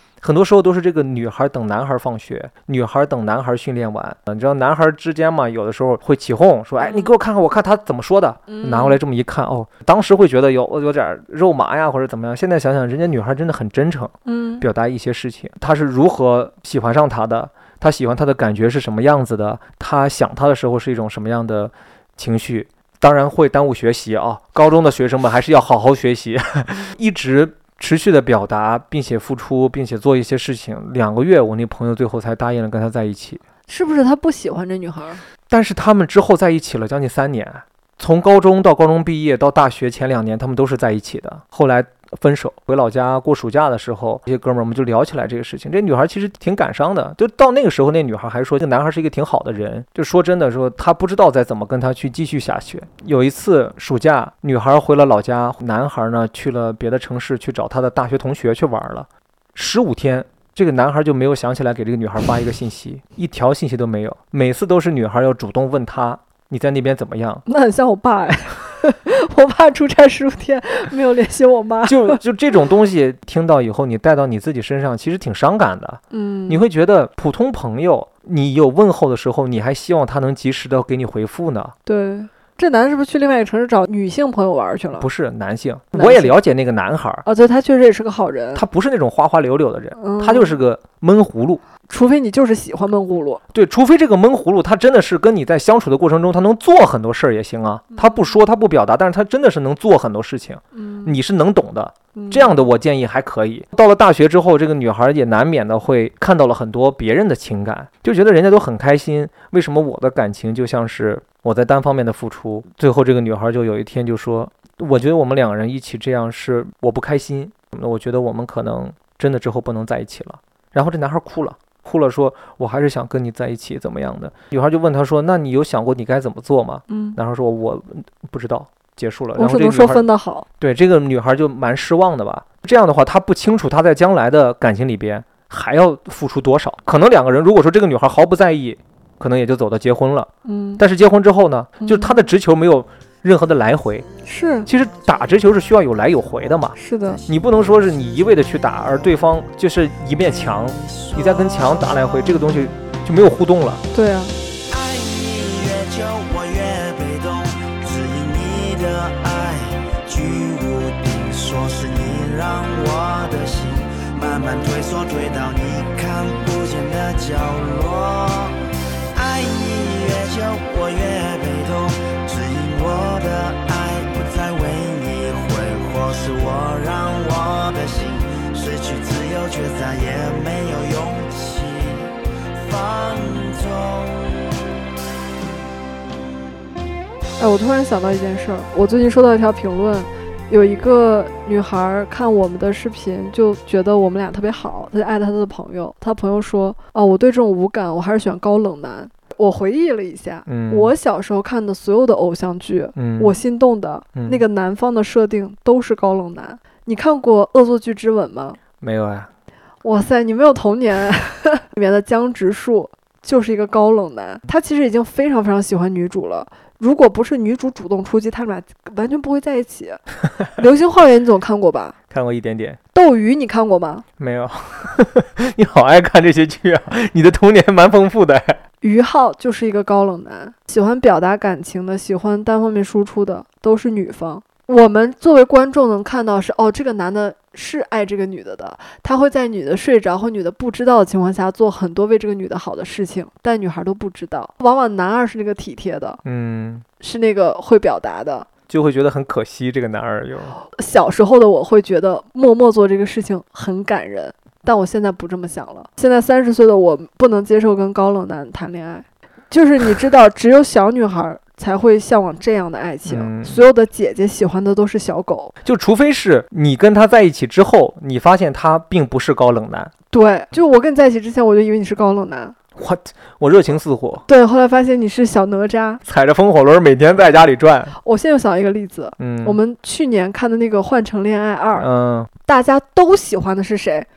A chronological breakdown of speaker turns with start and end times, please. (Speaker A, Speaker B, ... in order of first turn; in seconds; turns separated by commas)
Speaker A: 0.2-33.4, Speaker B: 6.8-7.1, Speaker B: 8.5-9.0, Speaker B: 14.3-14.7, Speaker B: 33.7-35.2, Speaker A: 35.5-67.4, Speaker B: 67.5-72.2, Speaker A: 71.9-81.8, Speaker B: 76.1-76.6, Speaker B: 81.9-85.1, Speaker A: 85.0-87.2, Speaker B: 85.9-86.3, Speaker B: 87.2-88.7, Speaker A: 88.5-91.6, Speaker B: 90.0-90.6, Speaker B: 91.9-93.4, Speaker A: 93.5-130.1, Speaker B: 97.9-98.3, Speaker B: 100.8-101.2, Speaker B: 102.1-102.6, Speaker B: 126.9-127.2, Speaker B: 129.4-130.5, Speaker A: 130.6-144.1, Speaker B: 140.4-140.8, Speaker B: 141.8-142.2, Speaker B: 144.2-144.7, Speaker A: 144.7-146.8, Speaker B: 146.8-147.2, Speaker A: 147.3-153.8, Speaker B: 153.9-154.4, Speaker C: 154.7-168.6, Speaker C: 169.1-184.6, Speaker B: 187.4-208.6, Speaker A: 200.5-200.9, Speaker A: 203.0-203.4, Speaker A: 204.2-204.4, Speaker A: 208.8-209.3, Speaker B: 209.8-220.0, Speaker B: 220.6-222.0, Speaker A: 222.1-222.8, Speaker B: 222.9-224.1, Speaker A: 224.2-228.6, Speaker B: 228.8-246.2, Speaker A: 246.2-246.8, Speaker B: 247.0-248.5, Speaker A: 248.7-250.6, Speaker B: 250.7-265.6, Speaker A: 263.1-263.6, Speaker A: 265.6-269.9, Speaker B: 270.1-272.6, Speaker A: 272.8-274.2, Speaker B: 274.3-276.0, Speaker A: 276.1-277.9, Speaker B: 278.0-281.9, Speaker A: 279.2-279.6, Speaker A: 281.8-282.3, Speaker B: 282.4-284.1